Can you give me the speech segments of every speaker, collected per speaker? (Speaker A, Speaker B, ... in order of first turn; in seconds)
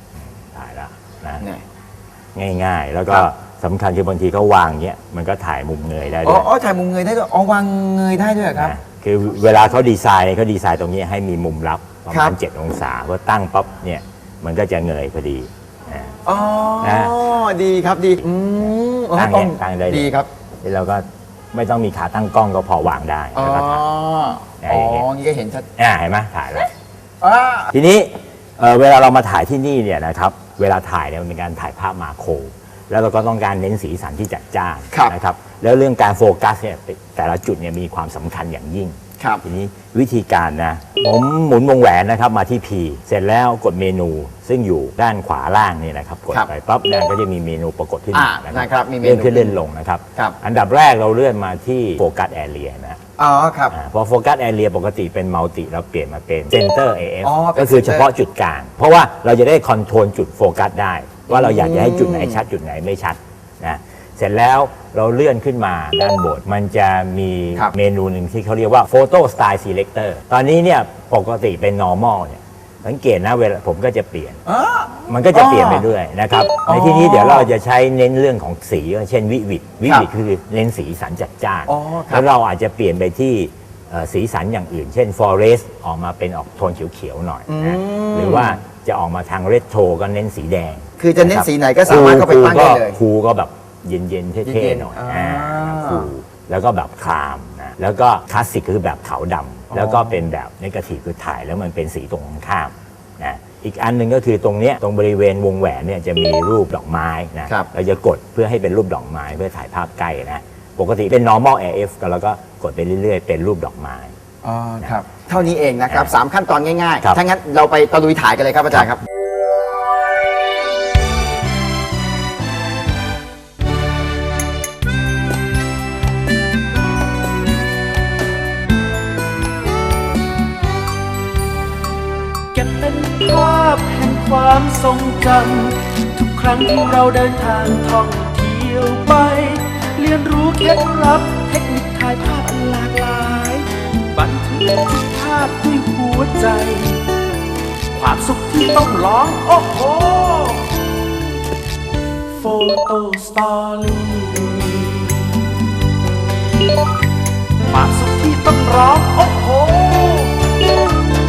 Speaker A: 0.5-1.4, 2.4-6.5, 8.6-16.2, 16.8-17.2, 19.1-20.1, 20.6-23.8, 24.6-25.1, 25.8-26.7, 27.7-53.0, 53.7-74.4, 75.1-114.1
Speaker B: 6.2-8.7, 12.1-12.3, 16.2-20.3, 23.3-25.7, 27.2-27.7, 48.1-49.6, 53.2-53.7, 57.2-58.1, 61.3-62.4, 74.5-75.9, 76.7-77.5, 81.7-82.3, 87.5-88.6, 91.0-93.0, 94.4-96.1, 99.7-100.2, 114.4-119.0
Speaker C: 132.5-147.0, 147.9-150.8, 152.3-155.5, 157.7-160.5